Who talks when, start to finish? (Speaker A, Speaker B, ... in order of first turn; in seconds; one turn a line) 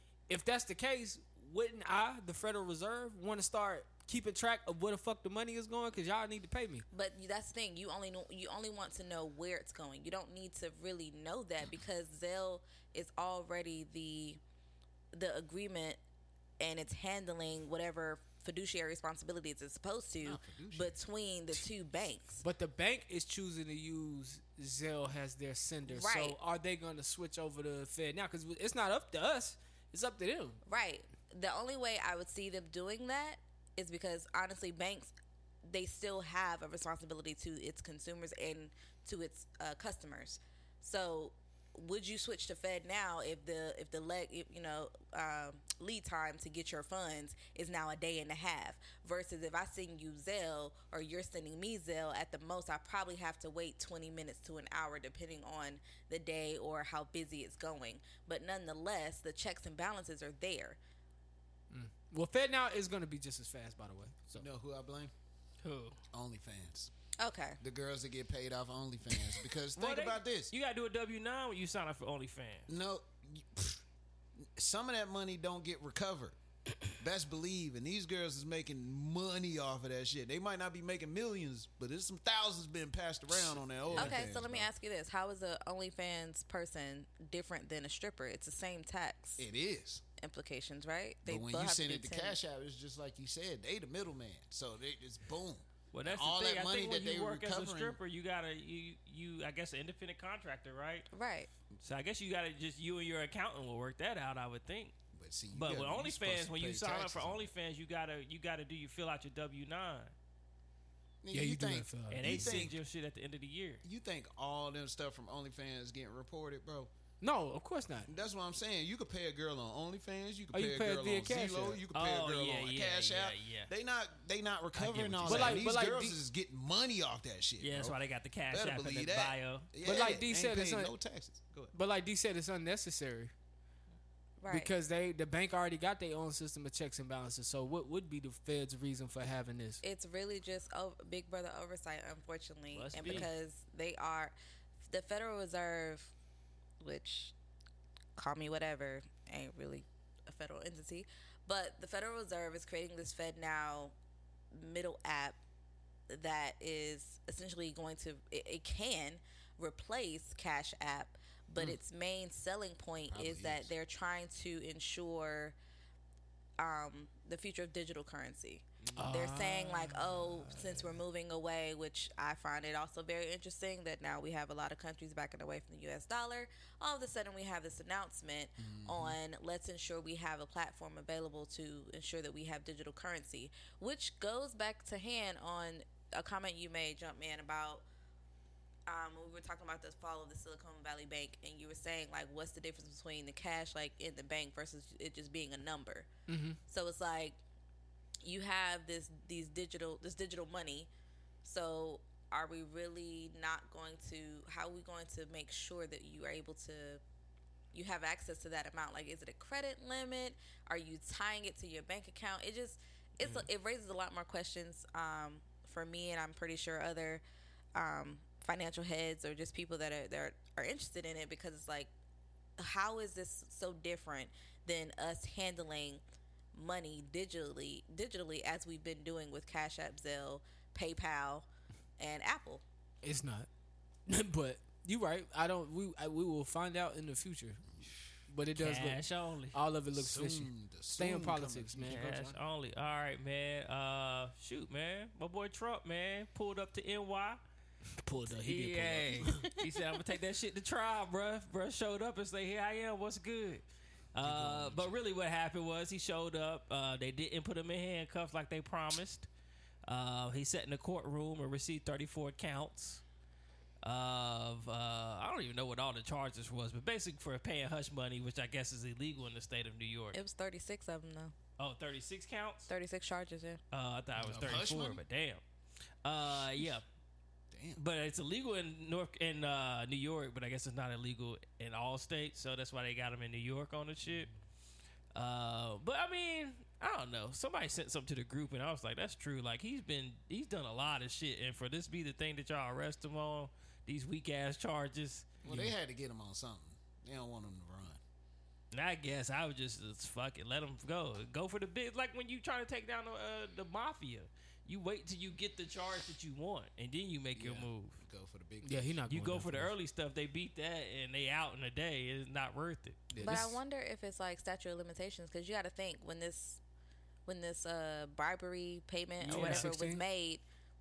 Speaker A: 0.3-6.8
Speaker B: 6.9-14.4
Speaker B: 15.1-16.0
Speaker B: 16.6-22.4
Speaker C: 20.2-20.9
Speaker A: 22.4-30.6
Speaker B: 25.9-26.4
Speaker B: 30.7-35.1
Speaker B: 35.7-60.8
Speaker A: 61.7-64.5
Speaker C: 64.4-65.1
Speaker D: 65.6-66.0
Speaker C: 66.1-66.9
Speaker B: 67.2-67.6
Speaker C: 67.6-70.5
Speaker D: 69.8-72.7
Speaker C: 72.7-73.8
Speaker C: 74.4-76.4
Speaker C: 76.9-84.7
Speaker A: 83.9-84.2
Speaker B: 84.0-89.4
Speaker C: 89.4-90.0
Speaker B: 90.2-92.4
Speaker C: 91.3-98.0
Speaker D: 95.9-101.1
Speaker B: 101.1-101.5
Speaker D: 101.8-104.9
Speaker C: 105.1-107.5
Speaker D: 105.5-110.1
Speaker C: 111.2-112.8
Speaker A: 111.3-112.4
Speaker D: 112.1-113.8
Speaker C: 113.8-116.9
Speaker A: 117.2-118.1
Speaker C: 118.1-128.0
Speaker A: 120.5-121.8
Speaker D: 121.9-123.7
Speaker D: 124.7-125.6
Speaker A: 125.3-126.2
Speaker D: 127.6-129.7
Speaker C: 128.5-131.7
Speaker A: 129.8-130.9
Speaker A: 131.7-133.3
Speaker B: 134.4-134.7
Speaker A: 134.5-139.8
Speaker B: 139.8-146.1
Speaker D: 142.7-143.3
Speaker B: 146.8-147.3
Speaker B: 148.2-153.9
Speaker B: 154.5-155.4
Speaker B: 156.1-165.6
Speaker C: 163.0-163.7
Speaker B: 166.6-187.8
Speaker C: 168.9-170.6
Speaker A: 168.9-169.9
Speaker C: 178.6-179.2
Speaker B: 188.9-196.1
Speaker A: 196.3-196.6
Speaker B: 196.7-197.4
Speaker B: 198.2-200.9
Speaker B: 201.4-207.0
Speaker B: 207.7-217.2
Speaker D: 213.2-213.5
Speaker B: 217.7-221.9
Speaker B: 222.6-226.0
Speaker B: 226.5-231.4
Speaker B: 232.0-232.6
Speaker A: 233.0-233.5
Speaker A: 234.1-237.6
Speaker A: 238.3-239.0
Speaker D: 238.6-239.6
Speaker A: 239.5-242.3
Speaker C: 239.9-242.4
Speaker D: 241.9-247.4
Speaker A: 248.0-249.5
Speaker D: 248.3-259.3
Speaker C: 254.2-255.1
Speaker D: 259.9-263.0
Speaker D: 263.8-270.2
Speaker B: 270.1-271.3
Speaker D: 271.6-272.7
Speaker B: 272.7-273.6
Speaker D: 273.7-275.4
Speaker C: 274.2-275.0
Speaker D: 276.1-276.8
Speaker C: 276.3-276.7
Speaker C: 277.5-277.8
Speaker D: 277.8-284.3
Speaker D: 285.1-295.3
Speaker A: 295.4-295.7
Speaker C: 295.4-298.0
Speaker D: 298.7-308.0
Speaker C: 307.3-309.0
Speaker A: 308.6-309.7
Speaker D: 309.1-313.1
Speaker A: 313.1-313.6
Speaker B: 313.2-316.6
Speaker B: 317.3-320.4
Speaker D: 319.2-319.7
Speaker A: 319.2-320.0